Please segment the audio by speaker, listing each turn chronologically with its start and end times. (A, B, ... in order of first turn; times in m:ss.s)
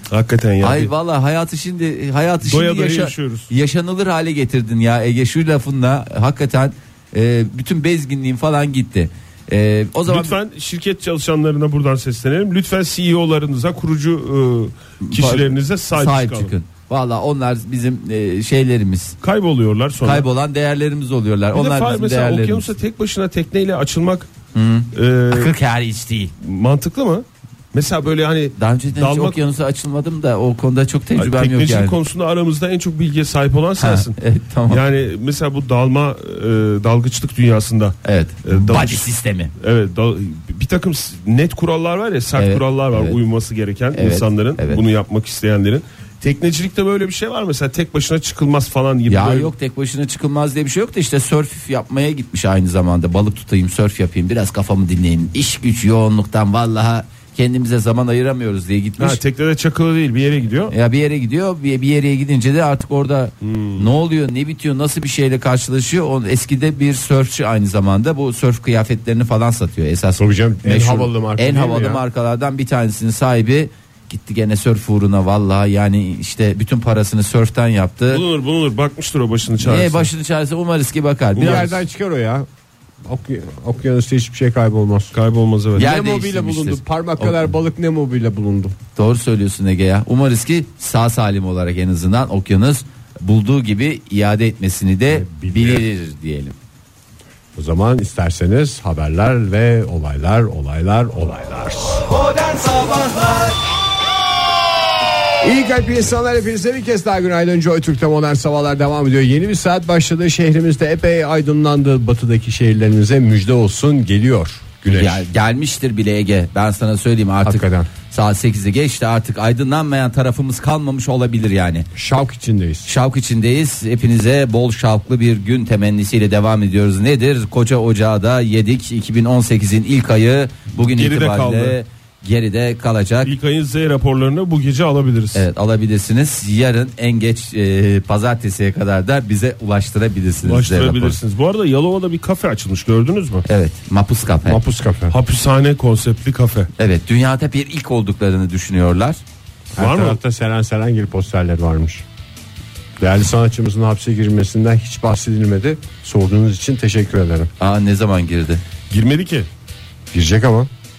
0:00.1-0:00.9 A
0:00.6-0:10.3 B
0:02.4-0:03.5 A
0:10.0-0:16.5 A
0:15.0-0:19.2 B
0:19.2-0:20.3 A
0:20.0-0:22.7 B
0:21.5-0:24.3 A
0:24.5-0:26.3 B
0:24.9-0:25.5 A
0:26.4-0:29.4 A
0:28.6-0:32.0 B
0:31.2-0:34.2 A
0:33.8-0:34.8 B
0:34.7-0:49.5 A
0:38.0-0:39.5 B
0:42.4-0:43.2 B
0:43.9-0:44.8 B
0:49.1-0:59.2 B
0:59.0-1:00.7 A
1:00.7-1:18.2 B
1:03.4-1:03.9 A
1:10.2-1:12.0 C
1:18.1-1:20.1 A
1:19.6-1:21.7 B
1:21.4-1:21.8 A
1:21.4-1:22.5 C
1:23.0-1:25.1 C
1:25.1-1:25.9 A
1:25.8-1:27.5 B
1:25.8-1:28.8 C
1:29.0-1:36.5 B
1:35.1-1:35.8 C
1:37.6-1:42.1 C
1:42.2-1:43.5 B
1:45.4-1:55.2 C
1:54.9-2:01.9 B
1:57.4-1:57.9 C
2:01.9-2:02.9 C
2:02.8-2:13.3 B
2:10.8-2:11.8 A
2:13.2-2:15.4 A
2:15.3-2:21.2 B
2:20.4-2:23.4 A
2:23.4-2:24.6 B
2:24.4-2:25.1 C
2:25.1-2:26.7 A
2:26.8-2:29.2 B
2:29.7-2:32.0 C
2:29.8-2:30.2 A
2:33.0-2:37.5 C
2:37.6-2:38.6 B
2:38.9-2:39.5 A
2:40.1-2:40.7 C